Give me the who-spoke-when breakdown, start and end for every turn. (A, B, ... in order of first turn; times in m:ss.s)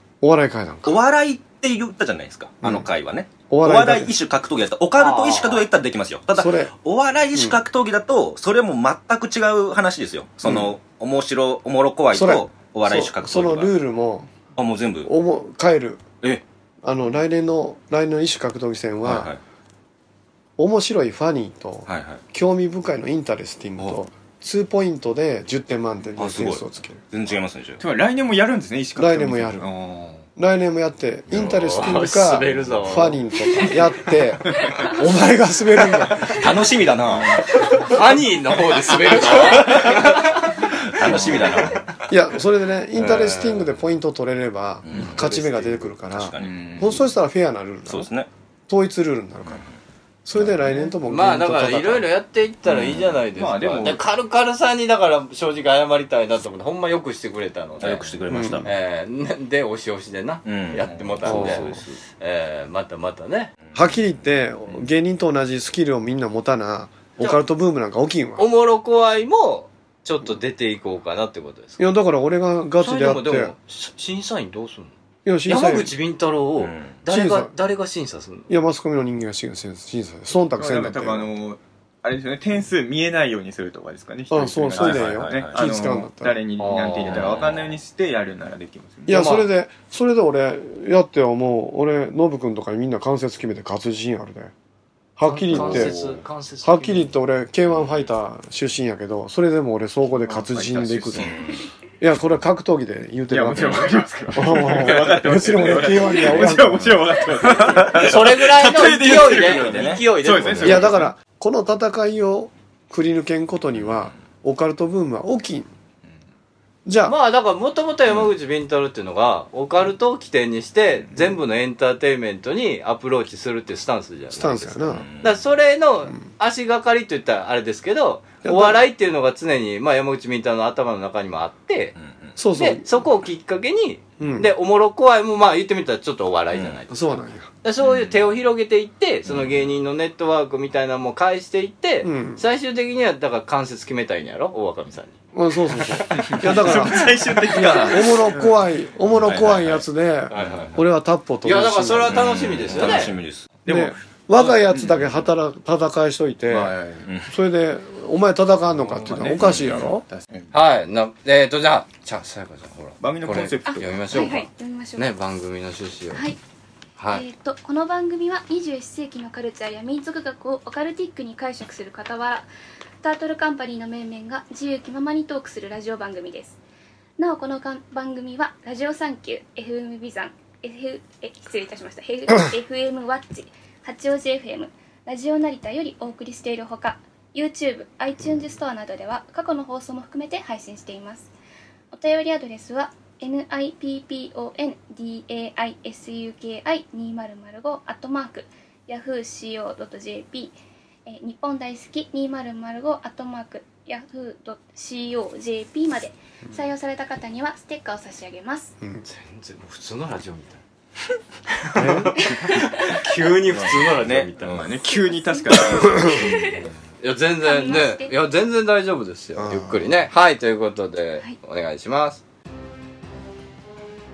0:00.2-0:01.0 A
0:00.8-0:13.7 B
0:02.6-0:02.9 A
0:03.5-0:04.1 A
0:05.0-0:05.7 C
0:06.3-0:06.7 A
0:10.4-0:10.7 A
0:12.1-0:14.3 A
0:14.6-0:15.1 B
0:15.0-0:16.1 A
0:16.8-0:19.3 A
0:19.0-0:19.4 B
0:20.6-0:27.0 A
0:21.9-0:22.2 B
0:26.2-0:27.8 B
0:27.8-0:30.2 D
0:29.0-0:29.7 A
0:30.4-0:36.4 A
0:31.3-0:33.8 C
0:36.3-0:37.4 B
0:37.7-0:41.9 C
0:39.1-0:40.0 B
0:40.7-0:41.8 B
0:41.0-0:41.7 D
0:42.1-0:48.1 A
0:43.0-0:43.7 C
0:44.8-0:45.3 B
0:45.0-0:45.9 C
0:46.1-0:46.7 B
0:46.4-0:47.0 D
0:47.9-0:48.3 B
0:48.7-0:49.6 A
0:50.3-0:52.1 A
0:51.1-0:58.1 C
0:52.7-0:53.2 B
0:53.4-0:54.0 D
0:57.8-0:58.7 B
0:58.3-0:58.7 A
0:58.6-1:03.5 C
1:00.4-1:02.0 B
1:01.2-1:01.8 A
1:03.8-1:08.5 A
1:08.4-1:11.8 C
1:11.8-1:13.5 A
1:12.8-1:14.9 C
1:15.2-1:15.9 A
1:15.5-1:18.5 C
1:16.6-1:17.0 B
1:17.1-1:17.5 A
1:18.5-1:21.3 A
1:20.6-1:29.2 D
1:24.3-1:26.4 A
1:24.8-1:25.6 B
1:26.6-1:27.4 C
1:27.1-1:27.7 B
1:29.1-1:34.5 A
1:29.1-1:29.5 C
1:35.2-1:36.0 A
1:35.2-1:37.1 C
1:35.6-1:35.9 B
1:36.6-1:41.3 A
1:40.2-1:41.4 D
1:41.2-1:41.6 B
1:42.0-1:47.1 A
1:43.3-1:51.1 D
1:47.8-1:50.9 C
1:49.2-1:50.8 B
1:50.6-1:55.7 A
1:56.9-1:57.2 A
1:57.0-2:12.0 C
2:04.3-2:05.1 A
2:04.9-2:05.4 B
2:08.4-2:08.8 A
2:12.0-2:12.3 B
2:12.4-2:13.0 A
2:12.6-2:17.0 C
2:14.2-2:14.5 A
2:16.5-2:16.8 B
2:16.9-2:17.5 A
2:17.6-2:25.2 C
2:22.0-2:22.4 A
2:25.3-2:32.3 A
2:26.1-2:26.4 C
2:26.2-2:28.4 D
2:29.3-2:29.7 B
2:30.3-2:30.8 C
2:31.4-2:33.2 C
2:32.1-2:33.6 B
2:33.6-2:35.1 D
2:33.7-2:36.8 A
2:36.5-2:37.1 D
2:37.3-2:40.0 A
2:38.9-2:40.5 D
2:39.4-2:39.9 B
2:40.5-2:46.2 C
2:43.0-2:44.4 D
2:43.7-2:45.1 E
2:46.1-2:46.4 E
2:47.0-2:47.2 C
2:47.1-2:52.5 E
2:53.0-2:56.6 E
2:57.2-3:11.3 E
3:11.9-3:20.6 E
3:21.1-3:28.8 E
3:29.0-3:30.6 C
3:31.5-3:34.6 C
3:31.8-3:32.2 A
3:33.6-3:34.7 B
3:33.8-3:36.7 D
3:35.1-3:36.7 E
3:37.0-3:42.2 C
3:37.4-3:38.2 E
3:39.4-3:39.8 A